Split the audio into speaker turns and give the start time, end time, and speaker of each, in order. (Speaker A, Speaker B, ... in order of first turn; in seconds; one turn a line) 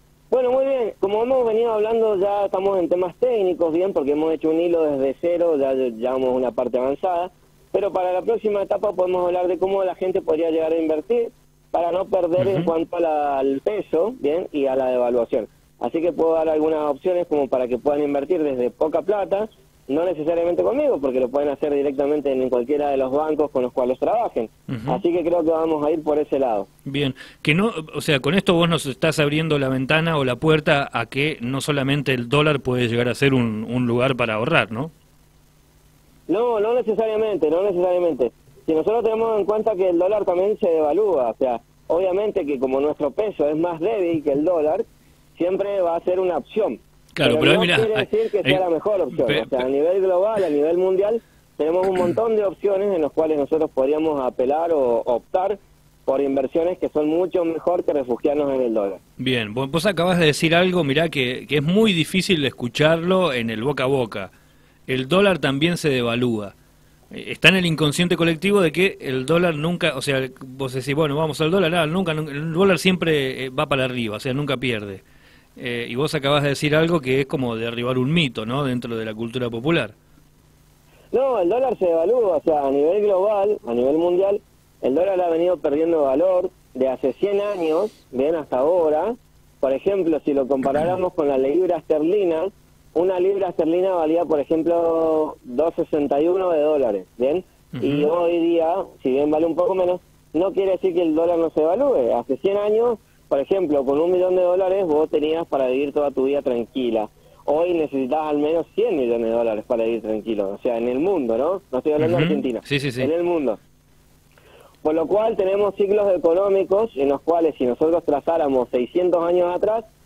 Speaker A: 0.3-26.7
Speaker B: 12.4-12.7
Speaker B: 24.7-25.0
Speaker B: 26.9-34.9
Speaker A: 36.3-59.0
Speaker B: 47.1-49.6
Speaker B: 59.2-64.3
Speaker B: 64.9-66.5
Speaker B: 67.1-75.0
Speaker B: 75.6-79.9
Speaker A: 81.1-113.6
Speaker B: 97.7-98.1
Speaker B: 112.0-113.1
Speaker A: 114.8-119.9